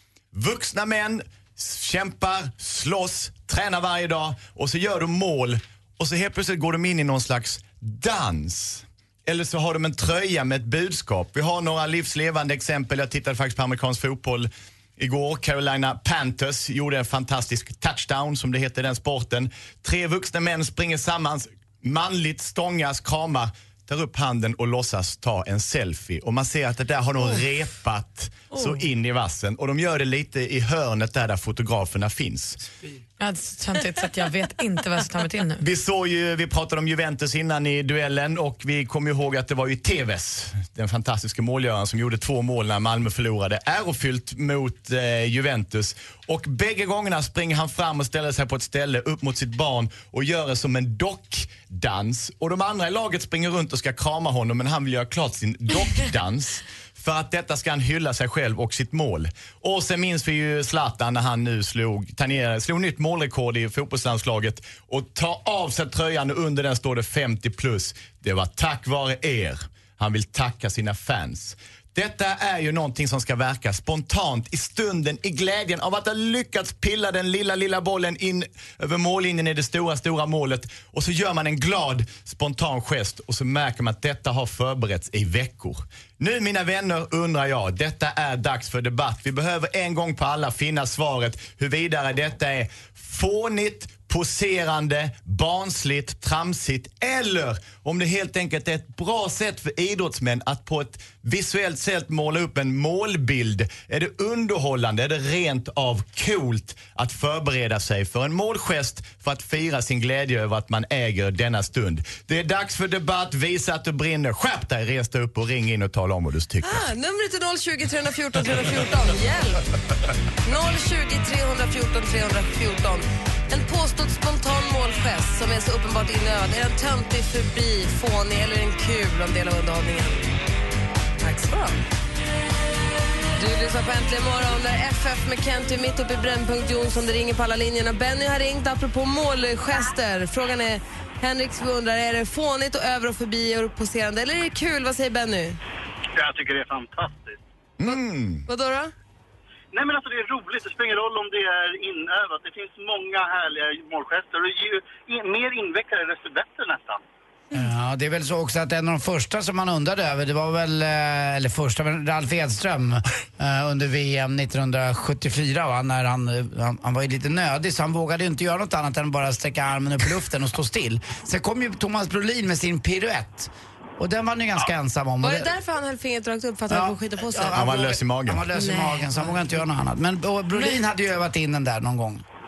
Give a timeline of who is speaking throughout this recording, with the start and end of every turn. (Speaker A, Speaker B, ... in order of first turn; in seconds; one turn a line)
Speaker A: 0.3-32.6
Speaker B: 28.5-28.8
Speaker B: 33.2-35.6
Speaker A: 35.6-116.9
Speaker C: 116.6-119.6
Speaker C: 120.5-130.2
Speaker C: 131.2-131.8
Speaker C: 133.4-145.6
Speaker D: 146.1-147.4
Speaker A: 147.8-148.5
Speaker C: 147.8-148.9
Speaker D: 149.7-157.0
Speaker E: 157.5-175.5
Speaker C: 175.2-177.7
Speaker E: 176.7-182.2
Speaker A: 177.5-178.5
Speaker C: 178.5-179.6
Speaker B: 180.6-180.8